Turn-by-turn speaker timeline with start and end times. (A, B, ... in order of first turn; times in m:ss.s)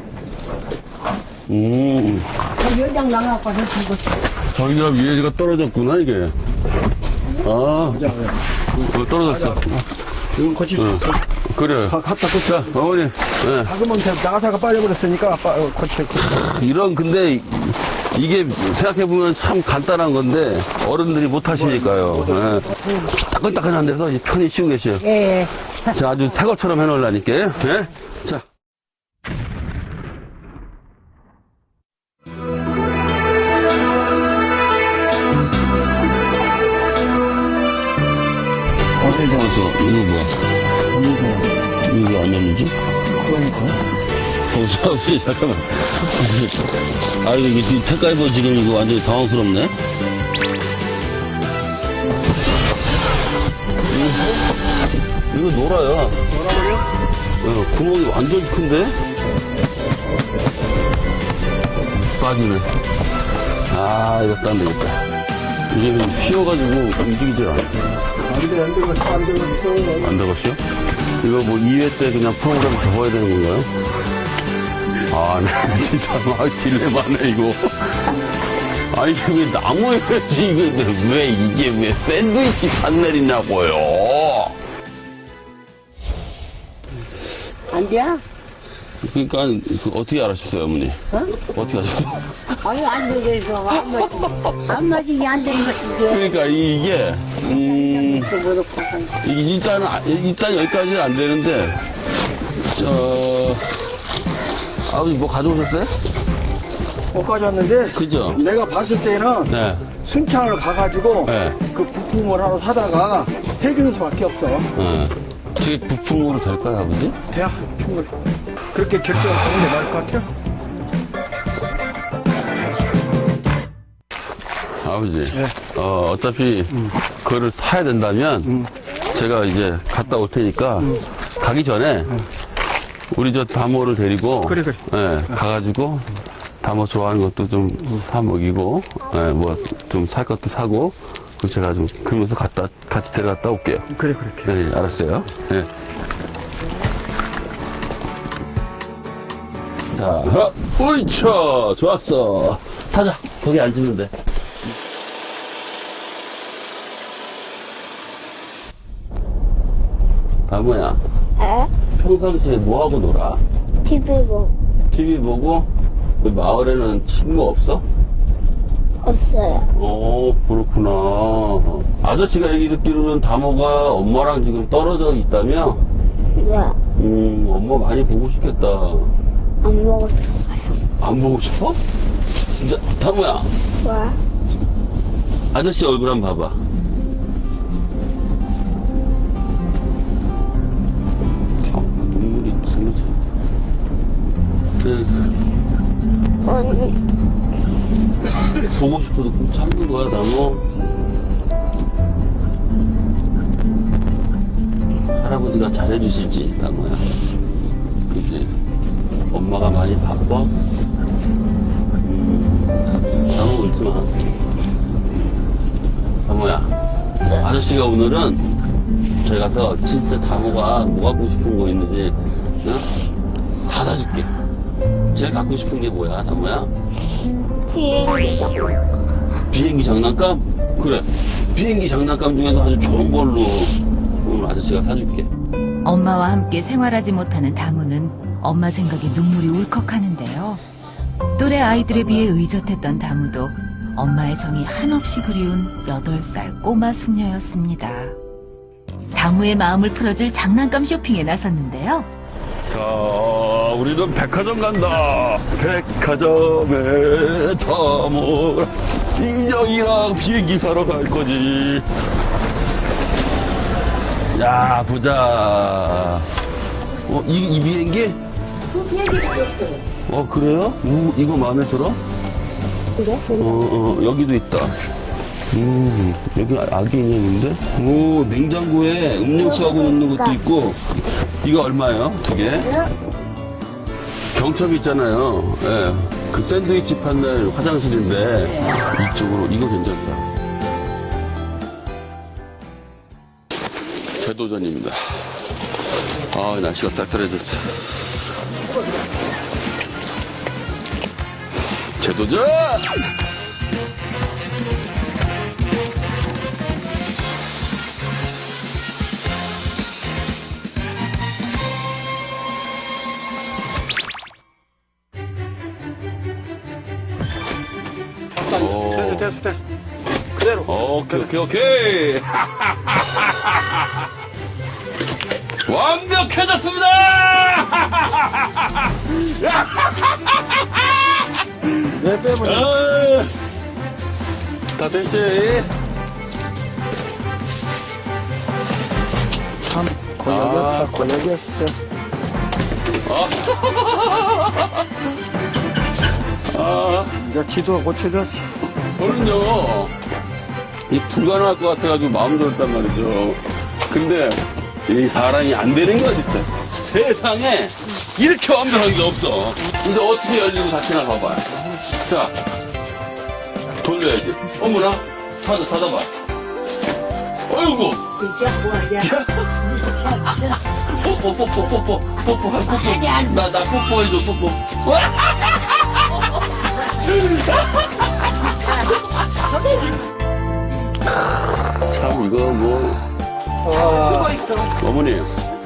0:01.5-0:02.4 A
0:02.6-0:04.2 B
0:04.5-0:06.3 A
0:07.4-0:08.0 A
0:07.9-0:08.4 C
0:08.7-0:09.8 A
0:09.2-0:11.2 C
0:10.8-0:13.7 A
0:11.9-0:12.8 C
0:13.6-0:16.3 C
0:16.2-0:25.1 A
0:21.7-0:22.6 C
0:25.0-0:25.5 B
0:25.8-0:28.4 A
0:39.0-0:39.6 C
0:39.0-0:40.3 A
0:40.9-0:41.7 C
0:41.8-0:42.7 A
0:43.1-0:43.8 C
0:44.5-0:49.7 A
0:53.9-0:54.4 A
0:55.3-0:56.2 A
0:56.3-0:56.8 C
0:57.4-0:59.0 A
1:01.9-1:02.7 A
1:03.7-1:05.0 A
1:05.7-1:07.9 A
1:08.2-1:10.1 C
1:10.0-1:10.6 A
1:11.2-1:13.7 A
1:15.1-1:18.1 A
1:18.9-1:24.5 A
1:27.7-1:28.2 B
1:29.0-1:32.2 A
1:31.1-1:31.4 B
1:32.6-1:36.3 B
1:36.0-1:38.4 A
1:37.8-1:39.2 B
1:39.2-1:41.8 A
1:42.6-1:43.8 A
1:44.8-1:46.0 A
1:47.1-1:54.7 C
1:47.9-1:48.4 A
1:49.5-1:49.9 A
1:51.2-1:51.6 A
1:54.8-1:57.2 A
1:57.3-1:58.1 C
1:58.7-2:00.3 C
2:04.8-2:08.6 A
2:09.1-2:12.2 A
2:13.1-2:16.1 A
2:14.4-2:14.8 C
2:16.6-2:23.9 A
2:23.9-2:24.5 C
2:24.4-2:25.7 A
2:29.9-2:34.1 A
2:40.5-2:41.0 A
2:41.4-2:41.7 D
2:42.0-2:43.4 A
2:43.8-2:44.5 D
2:44.9-2:45.7 A
2:46.2-2:47.8 A
2:49.0-2:49.6 D
2:49.7-2:55.8 A
2:56.4-2:56.8 D
2:57.0-2:59.1 A
2:59.6-3:00.4 D
3:01.0-3:01.8 A
3:02.5-3:03.5 A
3:03.8-3:04.2 D
3:05.5-3:06.6 A
3:11.6-3:13.1 A
3:14.8-3:15.3 A
3:16.4-3:17.0 D
3:18.6-3:20.6 A
3:25.1-3:27.0 A
3:28.1-3:28.5 A
3:29.3-3:30.5 A
3:32.0-3:34.1 A
3:36.2-3:36.7 A
3:37.2-3:38.4 A
3:39.2-3:42.9 A
3:43.6-3:44.3 A
3:45.1-3:46.7 A
3:47.7-3:48.8 D
3:49.5-3:55.3 A
3:55.8-4:00.6 E
4:01.4-4:08.1 E
4:09.1-4:12.1 E
4:12.7-4:21.8 A
4:24.3-4:26.3 A
4:27.0-4:28.2 A
4:30.1-4:32.0 A
4:33.0-4:33.6 D
4:33.3-4:34.7 A
4:35.5-4:40.8 A
4:39.6-4:40.4 D
4:41.4-4:42.7 A
4:44.3-4:50.2 A
4:54.2-4:55.3 A
4:56.3-4:57.8 A
5:02.0-5:02.9 A
5:18.4-5:19.6 C
5:18.5-5:19.3 A
5:20.4-5:21.2 C
5:20.6-5:23.8 A
5:25.6-5:33.3 A
5:32.0-5:32.7 C
5:34.7-5:35.7 A
5:39.6-5:41.7 C
5:40.2-5:41.0 A
5:43.0-5:44.8 A
5:46.5-5:47.2 A
5:47.2-5:48.5 C
5:48.9-5:49.9 A
5:50.9-6:02.3 A
6:03.8-6:06.1 A
6:07.5-6:08.1 A
6:08.2-6:09.1 B
6:09.0-6:09.4 A
6:10.9-6:16.0 A
6:12.7-6:13.2 B
6:16.9-6:17.9 A
6:21.6-6:23.0 A
6:23.7-6:25.3 A